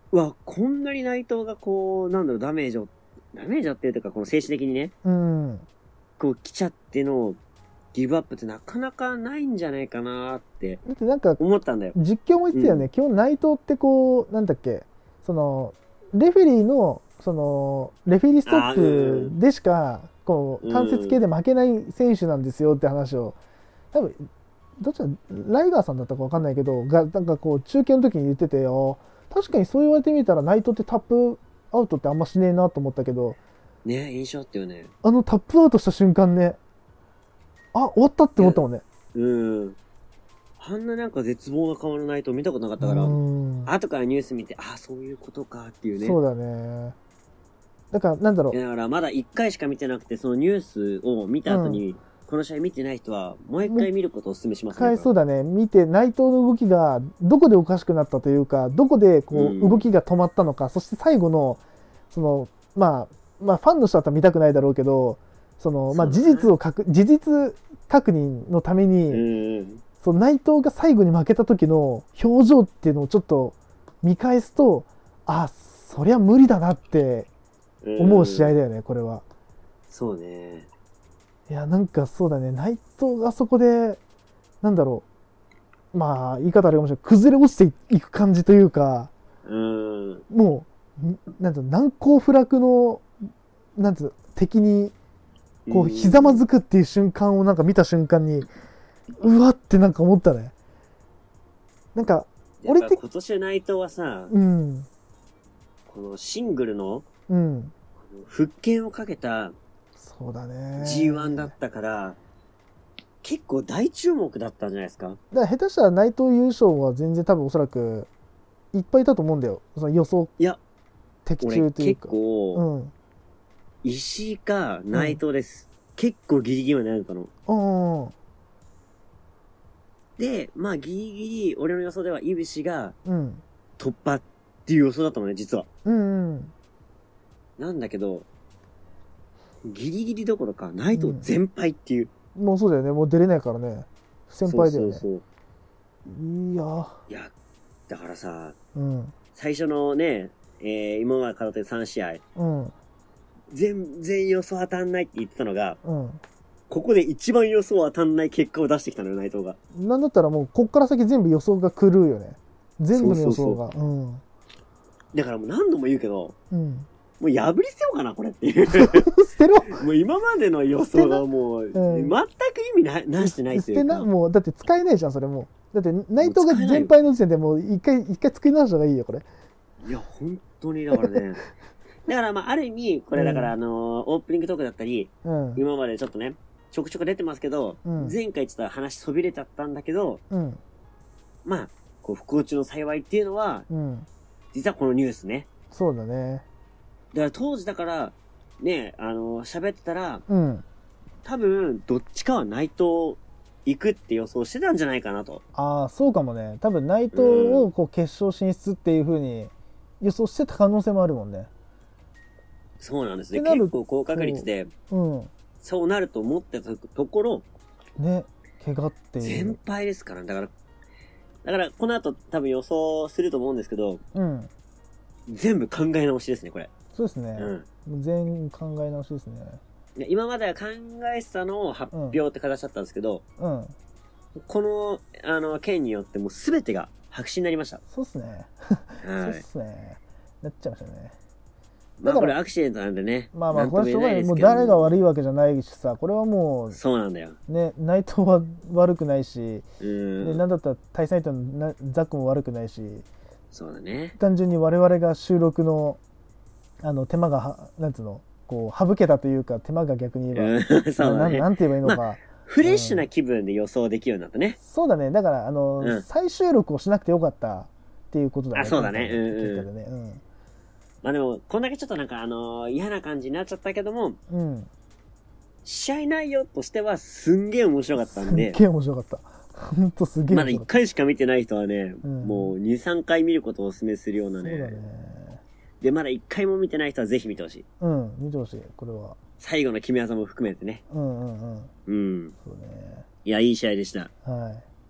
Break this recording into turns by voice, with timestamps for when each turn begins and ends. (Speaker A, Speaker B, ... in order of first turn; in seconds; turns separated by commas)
Speaker A: 0.1-4.9, Speaker B: 5.0-5.7, Speaker A: 6.2-7.4, Speaker A: 7.9-10.8, Speaker B: 10.8-11.4, Speaker A: 11.4-11.9, Speaker B: 11.9-23.4, Speaker A: 12.5-12.9, Speaker A: 18.4-19.3, Speaker A: 20.6-21.2, Speaker B: 23.9-24.3, Speaker B: 24.8-33.4, Speaker A: 33.8-34.9, Speaker B: 35.0-36.6, Speaker B: 37.7-38.8, Speaker A: 39.1-39.8, Speaker A: 40.6-46.2, Speaker B: 42.8-43.7, Speaker B: 46.0-47.0, Speaker B: 47.9-48.6, Speaker A: 48.5-55.1, Speaker B: 51.5-51.8, Speaker B: 53.6-53.9, Speaker B: 54.7-69.3, Speaker A: 59.3-59.9, Speaker A: 65.9-66.5, Speaker A: 69.1-69.8, Speaker B: 70.0-77.3, Speaker A: 77.8-78.5, Speaker B: 78.0-79.2, Speaker A: 79.9-80.7, Speaker B: 81.5-84.0, Speaker B: 84.6-85.0, Speaker B: 85.9-89.1, Speaker A: 89.5-90.2, Speaker B: 90.3-93.1, Speaker B: 93.8-94.9, Speaker A: 95.7-96.4, Speaker B: 95.7-98.5, Speaker B: 99.2-100.5, Speaker B: 102.0-103.0, Speaker A: 102.6-104.3, Speaker B: 104.3-104.9, Speaker A: 105.9-107.0, Speaker B: 107.3-107.7, Speaker A: 108.1-109.5, Speaker B: 110.0-111.5, Speaker A: 110.8-112.2, Speaker A: 113.2-115.2, Speaker B: 115.3-118.1, Speaker B: 118.7-120.3, Speaker B: 121.2-122.9, Speaker A: 121.4-122.6, Speaker A: 123.8-127.3, Speaker B: 124.9-125.2, Speaker B: 127.5-128.1, Speaker A: 130.2-132.9, Speaker B: 133.1-133.4, Speaker A: 133.8-135.7, Speaker B: 135.8-136.5, Speaker A: 137.6-138.3, Speaker A: 139.6-142.1, Speaker B: 140.9-141.3, Speaker B: 142.3-145.1, Speaker A: 144.4-145.2, Speaker B: 146.1-147.0, Speaker A: 147.9-148.6, Speaker B: 148.7-149.1, Speaker A: 149.3-152.2, Speaker B: 152.4-152.7, Speaker A: 153.5-155.8, Speaker B: 155.8-156.2, Speaker A: 156.7-159.6, Speaker B: 159.7-164.2, Speaker A: 162.9-163.6, Speaker A: 165.1-166.3, Speaker B: 166.5-166.9, Speaker A: 167.2-169.1, Speaker B: 168.7-169.8, Speaker A: 169.7-174.1, Speaker B: 170.9-172.2, Speaker B: 173.2-179.2, Speaker A: 176.2-176.9, Speaker A: 179.8-181.4, Speaker A: 182.1-190.2, Speaker B: 183.1-183.5, Speaker B: 185.2-185.6, Speaker B: 187.8-188.2, Speaker B: 190.3-190.6, Speaker A: 191.4-193.7, Speaker B: 193.7-194.1, Speaker A: 194.5-195.5, Speaker B: 195.7-196.4, Speaker A: 197.1-200.2, Speaker B: 200.3-200.6, Speaker A: 201.2-205.4, Speaker B: 205.6-211.5, Speaker A: 207.1-207.7, Speaker A: 212.8-214.7, Speaker B: 213.3-215.3, Speaker A: 215.6-217.4, Speaker B: 218.0-219.6, Speaker A: 219.2-220.5, Speaker A: 221.4-224.0, Speaker B: 224.1-224.5, Speaker A: 225.3-226.7, Speaker B: 226.9-229.6, Speaker A: 227.4-227.7, Speaker A: 229.9-233.2, Speaker B: 231.9-232.2, Speaker B: 233.4-233.7, Speaker A: 234.4-237.8, Speaker B: 237.9-241.1, Speaker A: 239.0-239.4, Speaker A: 242.0-245.0, Speaker B: 242.1-242.3, Speaker B: 243.3-246.8, Speaker A: 246.7-247.4, Speaker B: 247.5-249.7, Speaker A: 249.8-250.4, Speaker B: 250.2-253.1, Speaker A: 253.5-254.1, Speaker B: 254.2-256.0, Speaker B: 256.8-263.1, Speaker A: 260.3-264.6, Speaker B: 264.6-270.2, Speaker A: 265.8-266.1, Speaker A: 268.5-269.7, Speaker A: 271.0-274.2, Speaker B: 274.3-274.7, Speaker A: 275.6-278.6, Speaker B: 278.0-280.7, Speaker A: 280.3-284.8, Speaker B: 282.0-282.5, Speaker B: 284.4-285.4, Speaker A: 285.8-287.6, Speaker B: 287.8-289.2, Speaker A: 289.4-290.8, Speaker B: 290.9-291.7, Speaker A: 291.9-292.3, Speaker B: 292.4-293.1, Speaker A: 293.2-294.1, Speaker B: 294.2-294.6